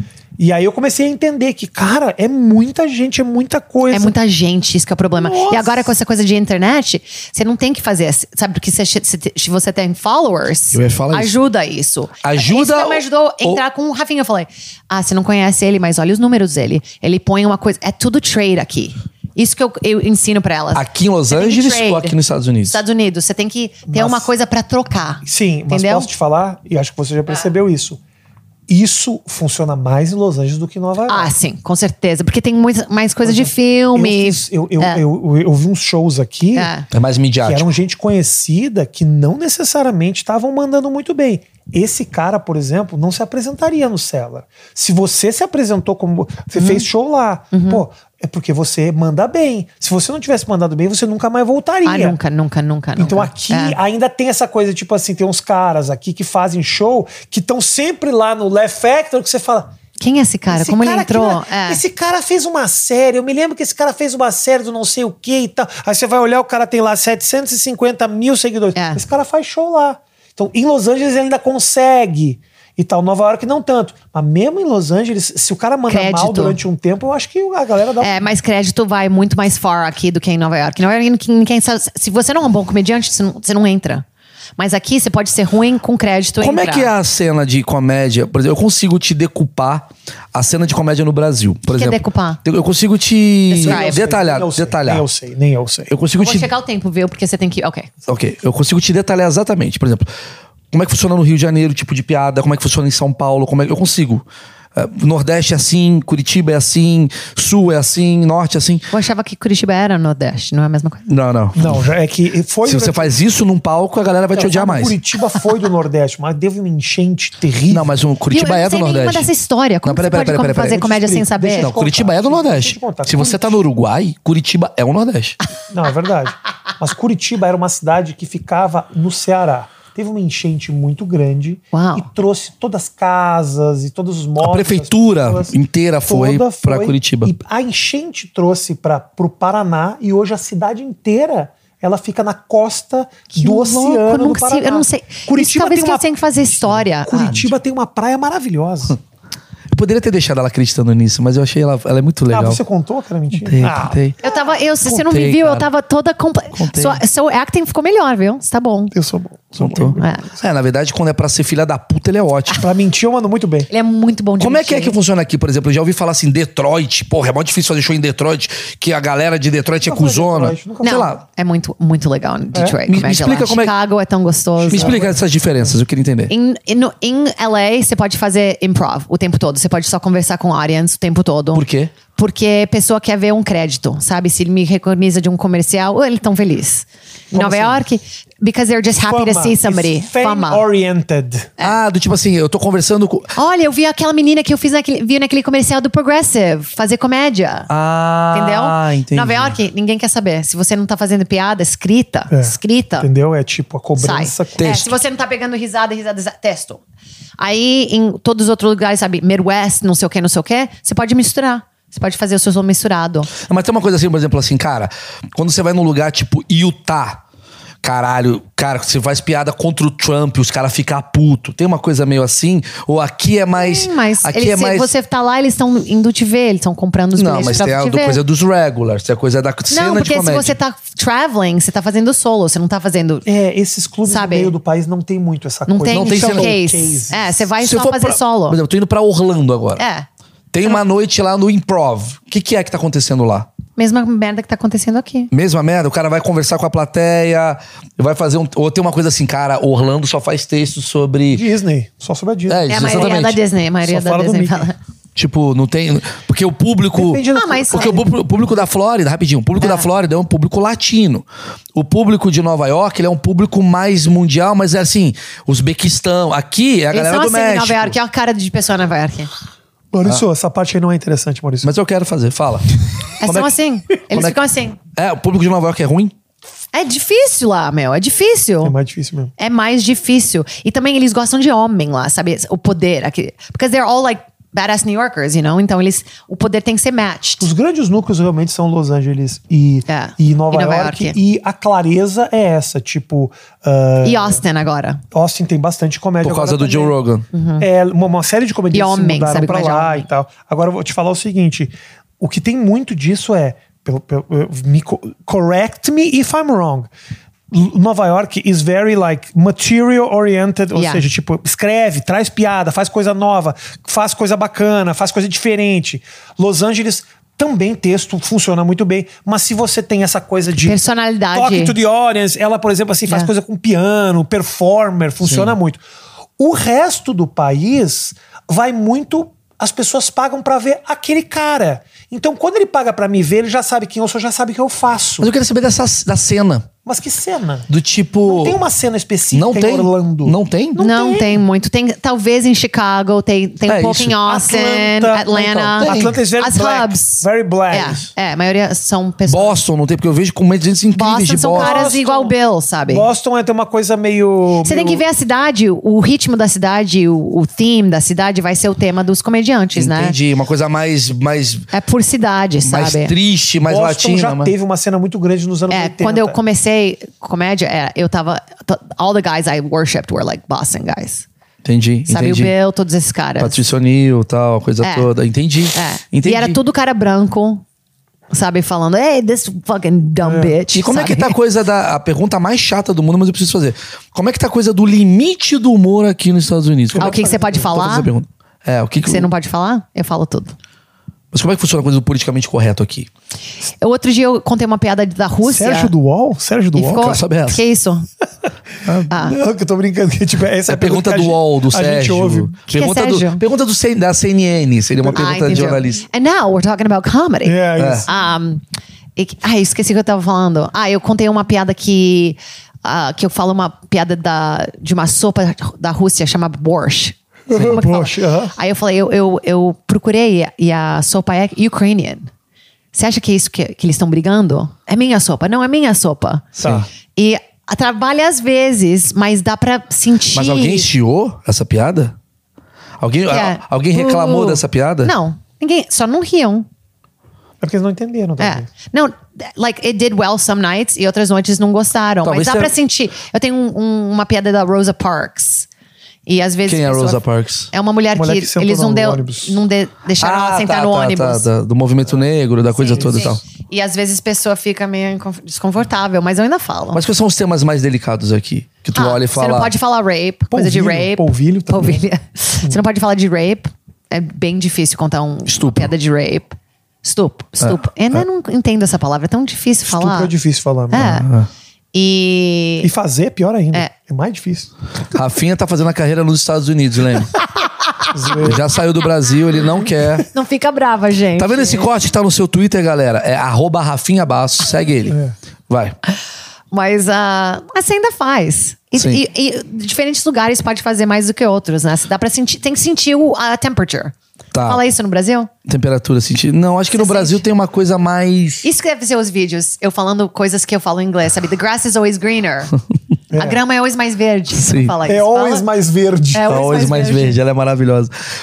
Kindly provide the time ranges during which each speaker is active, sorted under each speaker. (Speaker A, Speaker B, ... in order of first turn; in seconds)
Speaker A: 0.4-4.1, 5.2-5.9, 23.9-24.3, 25.2-28.0, 28.7-31.3, 33.2-36.7, 37.4-52.2, 53.0-59.7, 60.5-78.3, 93.6-95.9, 111.5-113.2, 114.3-117.9, 120.7-123.6, 125.7-135.5, 136.1-148.9, 152.3-154.3, 158.9-160.2, 162.6-163.7, 169.8-171.1, 174.6-175.2, 187.3-187.8, 189.1-191.5, 202.3-204.7, 233.2-237.3, 251.3-252.9, 253.8-254.7, 256.9-258.1, 269.9-271.7, 278.6-279.3, 287.4-294.4, 295.1-297.0, 297.6-306.9, 307.5-320.8, 321.3-325.8, 326.4-335.3, 336.8-337.7, 338.2-341.4, 344.2-348.1, 351.5-352.3, 352.9-355.0, 363.6-366.4, 380.2-380.6, 386.9-387.8, 395.4-397.1, 399.1-402.5, 405.0-405.8, 407.4-408.1, 417.5-418.5, 426.6-426.9, 437.6-438.7, 448.1-449.6, 460.5-462.0, 469.9-471.2, 472.8-474.7, 478.1-478.6, 485.1-485.3, 503.3-503.6, 505.0-506.9
Speaker B: 3.9-22.1, 22.6-26.1, 31.1-35.0, 36.5-36.9, 46.5-46.9, 47.5-47.8, 51.8-53.8, 60.0-61.8, 75.9-76.6, 78.0-84.0, 84.6-86.9, 91.7-92.4, 93.5-94.1, 96.2-97.9, 108.9-111.1, 118.3-121.8, 131.7-132.1, 143.3-147.5, 154.2-158.9, 160.0-160.2, 163.7-164.9, 170.8-175.0, 176.3-181.6, 182.2-190.6, 193.3-197.7, 198.3-203.1, 204.0-206.8, 207.4-213.3, 223.5-228.2, 229.7-233.3, 234.1-234.5, 235.7-238.6, 239.8-240.1, 243.8-245.3, 252.7-254.7, 257.3-258.0, 259.6-259.9, 266.9-269.3, 273.2-274.8, 276.7-278.7, 279.4-287.5, 289.9-291.1, 294.0-295.0, 297.3-297.6, 298.7-300.1, 310.7-311.0, 320.6-321.7, 340.8-349.6, 350.9-353.1, 354.6-360.1, 361.7-363.1, 365.7-371.2, 372.1-373.6, 374.8-375.1, 375.7-377.6, 378.3-381.4, 387.0-388.1, 389.0-390.5, 393.8-395.9, 396.8-398.1, 399.1-399.4, 402.7-403.4, 405.1-408.6, 409.1-422.3, 422.9-426.5, 427.1-430.9, 433.3-436.7, 438.4-445.7, 446.2-447.2, 447.7-451.5, 452.7-457.0, 458.9-470.3, 470.9-471.3, 471.9-472.9, 480.3-481.9, 486.7-495.5, 496.9-497.4, 498.6-502.7, 503.3-505.6, 506.3-507.4
Speaker C: 10.7-11.3, 12.2-13.6, 20.7-22.8, 36.9-37.7, 86.4-95.0, 95.9-96.5, 98.1-100.1, 100.7-104.2, 104.7-108.9, 111.1-111.8, 112.6-115.0, 117.7-119.3, 119.8-120.8, 121.6-125.4, 134.4-137.3, 149.7-152.6, 153.4-154.2, 154.8-155.7, 156.5-157.0, 159.6-162.6, 164.4-171.2, 172.8-173.7, 174.7-176.3, 181.5-181.9, 191.6-193.3, 197.7-199.6, 204.6-205.0, 213.4-217.2, 217.8-224.9, 227.2-230.6, 235.9-236.5, 237.6-239.8, 240.5-243.5, 245.3-251.4, 252.5-253.4, 255.2-267.9, 271.6-273.5, 274.1-274.4, 274.9-276.1, 296.2-297.2, 325.2-325.5, 335.2-336.7, 337.7-338.6, 339.3-340.8, 343.6-344.2, 345.7-346.1, 349.3-351.7, 359.7-361.7, 362.6-364.5, 371.6-372.5, 373.4-376.6, 380.7-389.3, 391.3-393.1, 396.8-397.6, 398.8-399.1, 400.7-406.0, 407.8-408.1, 426.6-426.9, 430.3-432.1, 433.0-435.1, 442.2-442.7, 446.6-447.7, 450.2-453.4, 456.9-459.7, 465.5-465.9, 467.6-468.2, 471.0-471.5, 475.1-477.3, 478.4-480.3, 481.4-485.2, 485.7-486.0, 488.9-489.2, 494.5-494.8, 495.6-498.6, 504.5-504.9, 506.4-508.1